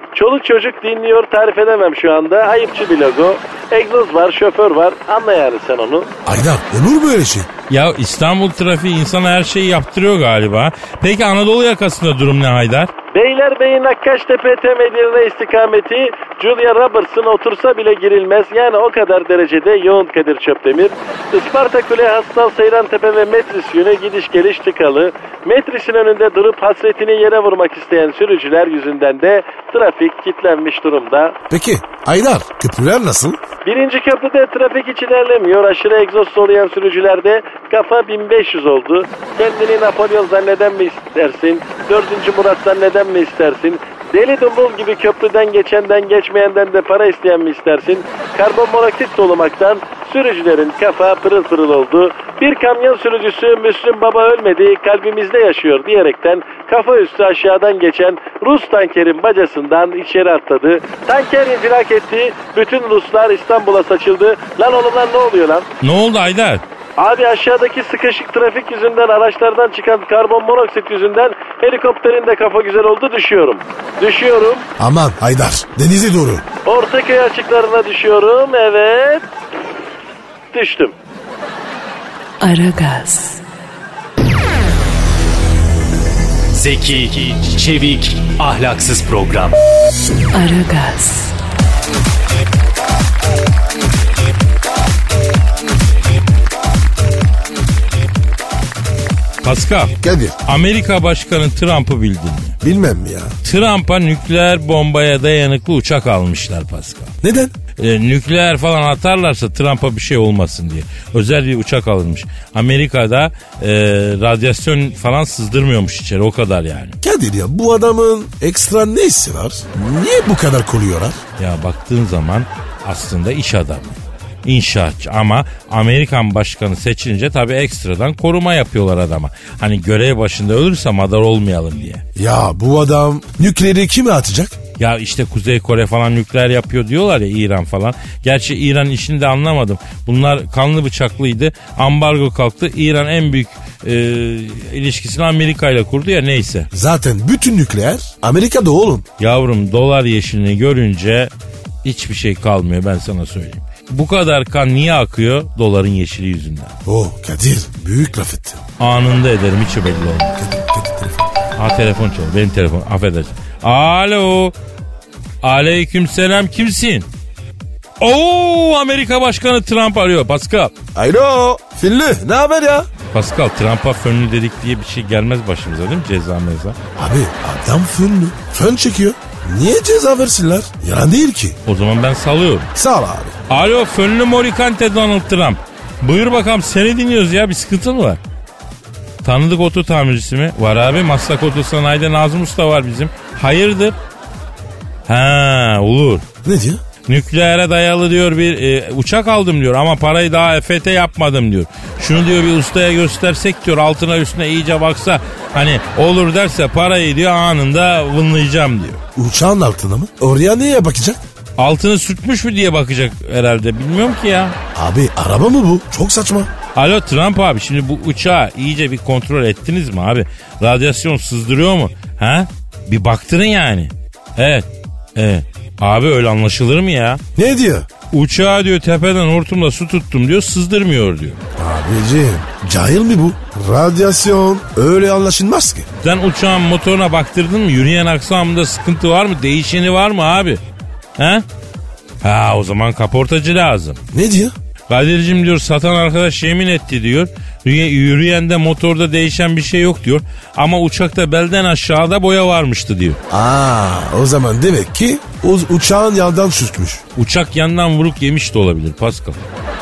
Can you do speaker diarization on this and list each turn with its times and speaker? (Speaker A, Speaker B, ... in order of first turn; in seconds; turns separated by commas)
Speaker A: 0.1-6.1, Speaker B: 6.2-7.5, Speaker C: 7.7-12.9, Speaker A: 13.1-31.3, Speaker B: 31.5-33.4, Speaker A: 33.6-65.7, Speaker C: 65.8-66.6, Speaker A: 67.0-74.6, Speaker B: 74.8-76.4, Speaker A: 76.7-79.2, Speaker A: 80.5-80.9, Speaker D: 82.4-83.4, Speaker E: 86.5-89.5, Speaker D: 90.3-91.3, Speaker C: 99.4-102.6, Speaker B: 100.0-100.3, Speaker B: 102.6-103.4, Speaker C: 103.4-107.1, Speaker B: 107.2-107.5, Speaker C: 107.8-117.0, Speaker B: 117.0-121.2, Speaker C: 121.4-132.0, Speaker B: 132.2-134.6, Speaker C: 134.8-146.7, Speaker B: 146.7-149.1, Speaker C: 149.2-151.3, Speaker C: 151.8-156.7, Speaker B: 156.8-158.6, Speaker C: 158.8-160.3, Speaker B: 160.4-161.2, Speaker C: 161.6-164.5, Speaker C: 165.4-167.1, Speaker C: 168.0-170.7, Speaker B: 170.9-172.9, Speaker C: 173.1-176.8, Speaker B: 176.9-181.6, Speaker C: 181.7-182.7, Speaker B: 182.7-183.3, Speaker C: 183.5-188.2, Speaker C: 189.2-193.9, Speaker C: 195.1-196.2, Speaker B: 196.4-196.8, Speaker C: 197.1-209.0, Speaker B: 209.2-211.2, Speaker C: 211.6-214.6, Speaker B: 214.7-216.5, Speaker C: 216.7-227.2, Speaker B: 227.3-227.9, Speaker C: 228.1-231.4, Speaker B: 231.6-235.9, Speaker C: 236.0-240.6, Speaker C: 241.2-241.4, Speaker C: 242.2-244.0, Speaker B: 244.1-244.5, Speaker C: 244.9-253.2, Speaker B: 253.3-257.0, Speaker C: 257.1-259.4